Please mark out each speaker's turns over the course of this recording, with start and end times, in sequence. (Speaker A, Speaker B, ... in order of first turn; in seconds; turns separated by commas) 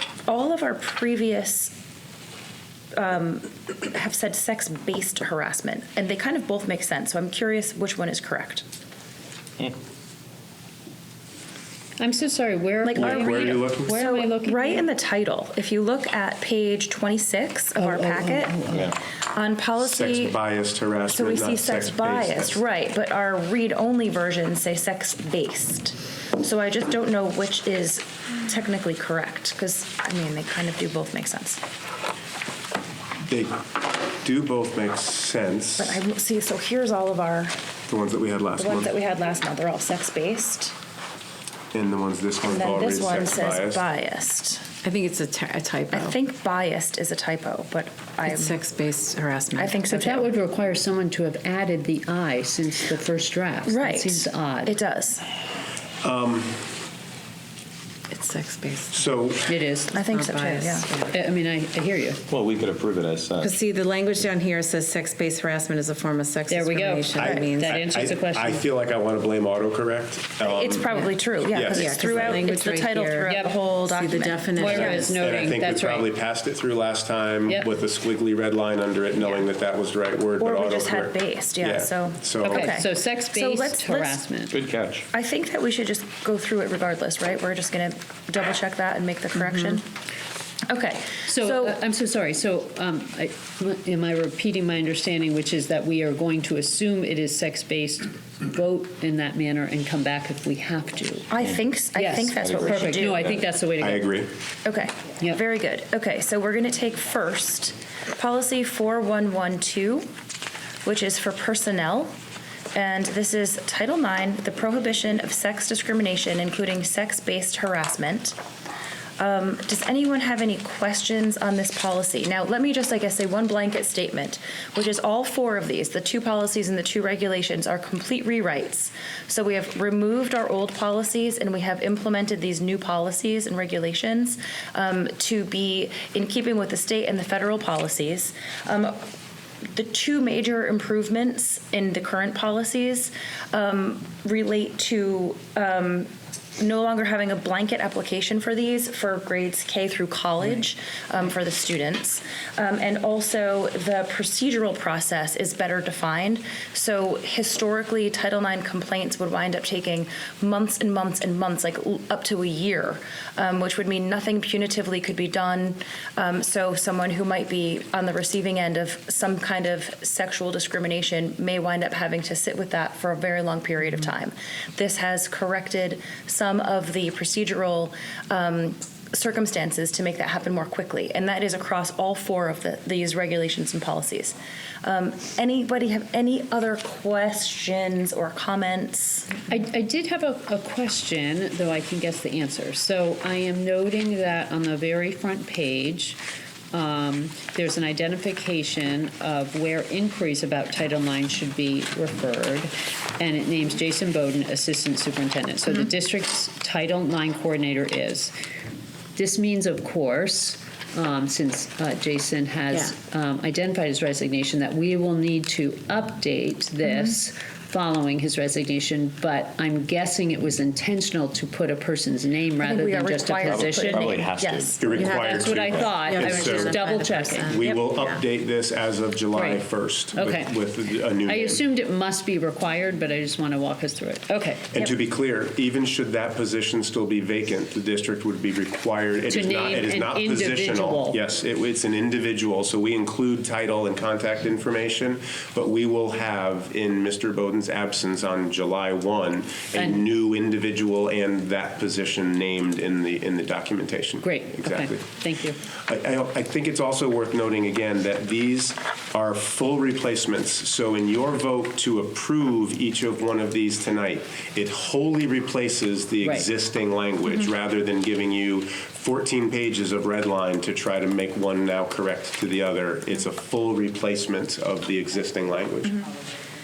Speaker A: 0.2-1.7, Speaker A: 2.9-8.6, Speaker B: 12.0-14.9, Speaker A: 12.8-20.4, Speaker C: 12.9-14.0, Speaker B: 17.8-18.9, Speaker C: 19.8-22.6, Speaker A: 21.1-31.6, Speaker C: 33.2-36.0, Speaker A: 35.8-37.5, Speaker C: 37.9-38.9, Speaker A: 38.6-40.7, Speaker C: 41.7-43.8, Speaker A: 42.4-44.7, Speaker D: 44.8-46.2, Speaker A: 45.9-48.6, Speaker D: 48.2-49.8, Speaker A: 49.5-50.3, Speaker B: 49.9-54.7, Speaker A: 53.7-55.2, Speaker C: 56.0-56.7, Speaker D: 58.1-59.0, Speaker C: 58.9-59.5, Speaker B: 59.5-59.9, Speaker A: 59.9-60.9, Speaker D: 59.9-61.1, Speaker B: 61.1-62.2, Speaker E: 62.3-63.6, Speaker D: 63.4-67.7, Speaker B: 66.5-68.6, Speaker C: 67.2-72.4, Speaker A: 70.4-75.1, Speaker D: 71.7-75.2, Speaker B: 73.2-73.5, Speaker B: 74.5-76.1, Speaker C: 74.7-82.7, Speaker A: 80.4-84.2, Speaker B: 82.4-84.5, Speaker E: 84.5-85.0, Speaker A: 85.1-89.8, Speaker A: 90.7-91.8, Speaker B: 91.3-101.3, Speaker A: 101.3-103.2, Speaker B: 101.9-104.2, Speaker E: 102.3-103.4, Speaker C: 103.8-104.3, Speaker A: 104.6-110.0, Speaker A: 110.8-112.1, Speaker A: 112.7-118.4, Speaker A: 119.2-139.0, Speaker A: 139.7-189.4, Speaker B: 189.5-196.2, Speaker B: 196.7-208.3, Speaker B: 209.2-224.2, Speaker A: 222.6-225.2, Speaker E: 223.4-226.2, Speaker C: 224.8-231.6, Speaker D: 224.9-228.2, Speaker B: 225.2-227.6, Speaker B: 229.3-230.5, Speaker B: 231.2-234.7, Speaker C: 234.7-255.0, Speaker B: 239.3-241.2, Speaker B: 249.8-250.0, Speaker B: 254.2-255.6, Speaker C: 255.8-275.9, Speaker B: 266.2-266.5